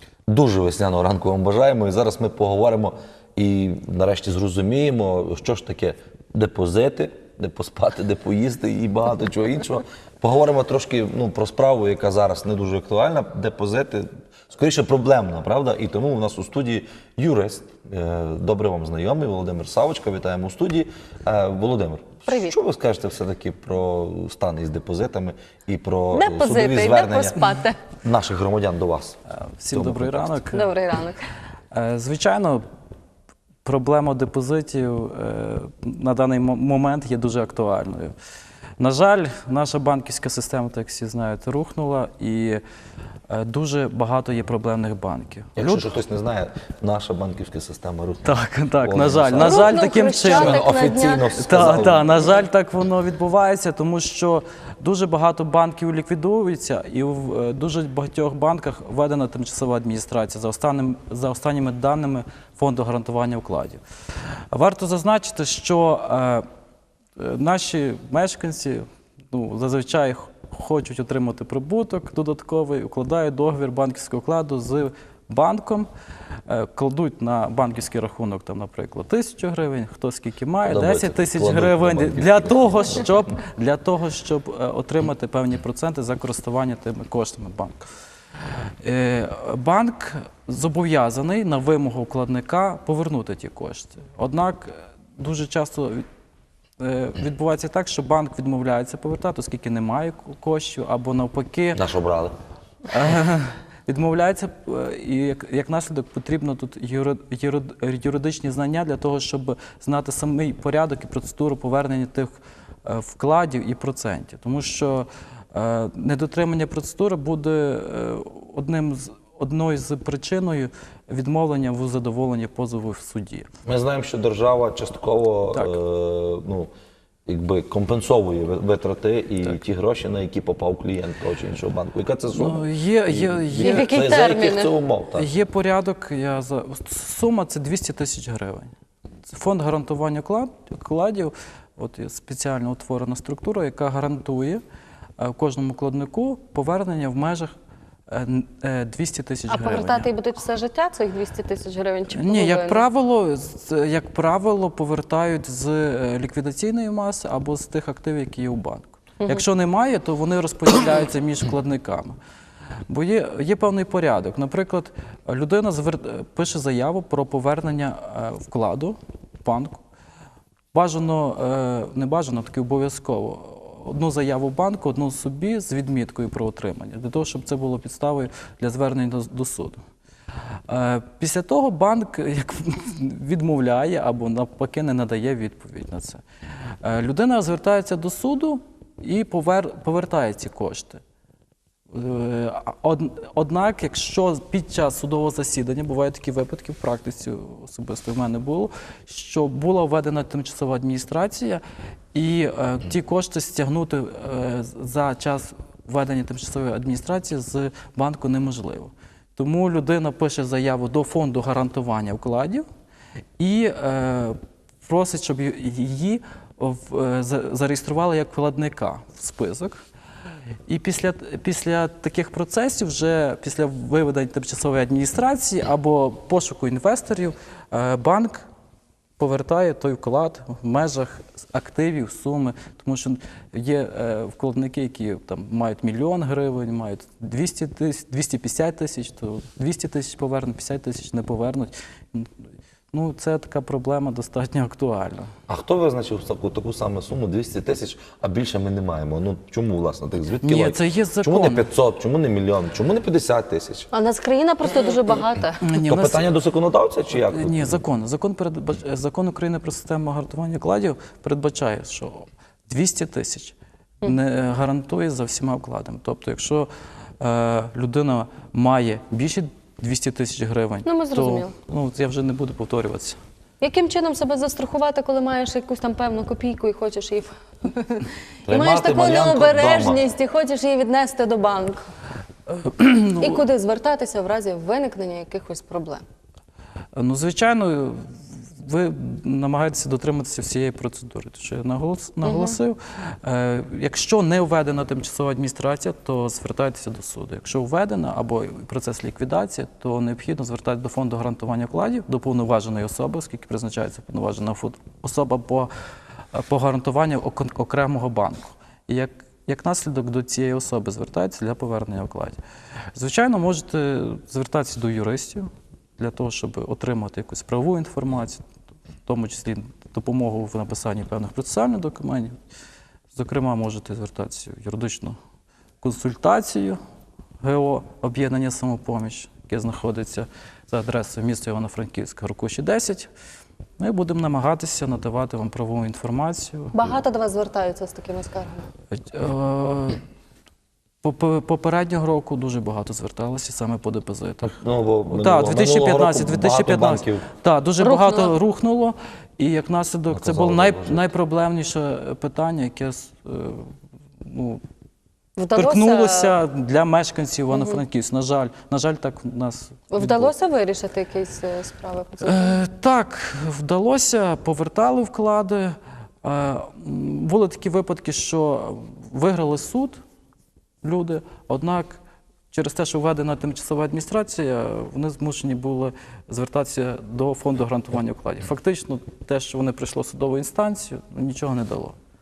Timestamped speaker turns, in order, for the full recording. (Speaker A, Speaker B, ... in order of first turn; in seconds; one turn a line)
Speaker A: 0.3-27.4
Speaker B: 22.3-22.6
Speaker B: 26.1-27.8
Speaker A: 28.0-29.2
Speaker C: 29.3-30.6
Speaker A: 29.7-30.4
Speaker B: 30.5-31.2
Speaker C: 31.7-32.6
Speaker C: 33.6-38.1
Speaker C: 38.8-42.6
Speaker C: 43.3-45.9
Speaker A: 45.5-52.4
Speaker C: 48.2-63.8
Speaker B: 49.4-51.4
Speaker C: 64.5-66.4
Speaker C: 67.2-75.9
Speaker C: 76.5-87.8
Speaker A: 80.6-83.1
Speaker C: 88.8-96.0
Speaker C: 96.8-101.8
Speaker A: 101.7-102.3
Speaker C: 102.9-123.5
Speaker A: 123.7-126.7
Speaker A: 127.2-135.3
Speaker C: 132.3-133.9
Speaker B: 133.6-134.7
Speaker C: 135.2-138.7
Speaker C: 139.2-144.6
Speaker C: 145.2-147.5
Speaker C: 148.1-150.1
Speaker B: 149.5-152.8
Speaker C: 152.1-162.2
Speaker C: 162.9-169.8
Speaker C: 170.7-179.8
Speaker C: 180.7-186.2
Speaker C: 186.8-191.0
Speaker C: 191.9-201.6
Speaker C: 202.1-212.6
Speaker C: 213.4-219.8
Speaker C: 220.7-228.4
Speaker C: 229.2-242.3
Speaker C: 242.9-245.3
Speaker A: 245.5-253.9
Speaker C: 250.4-251.7
Speaker B: 253.9-255.6
Speaker C: 255.6-256.3
Speaker A: 255.7-257.8
Speaker C: 257.1-273.2
Speaker B: 270.8-271.5
Speaker B: 273.6-281.8
Speaker A: 278.4-280.0
Speaker C: 282.5-283.4
Speaker B: 283.2-286.0
Speaker C: 286.9-305.7
Speaker B: 292.2-292.6
Speaker C: 306.3-312.4
Speaker C: 312.9-318.4
Speaker C: 319.1-322.3
Speaker C: 323.1-325.1
Speaker C: 325.8-326.8
Speaker C: 327.4-333.1
Speaker C: 333.8-336.8
Speaker B: 336.7-338.7
Speaker C: 338.9-340.0
Speaker C: 341.0-344.6
Speaker A: 344.4-347.3
Speaker C: 345.1-353.7
Speaker B: 347.8-348.3
Speaker A: 350.1-351.1
Speaker C: 354.2-354.6
Speaker B: 355.4-356.4
Speaker C: 355.5-360.3
Speaker B: 357.5-357.8
Speaker B: 359.9-362.6
Speaker C: 362.2-370.0
Speaker C: 370.8-372.0
Speaker C: 372.5-381.9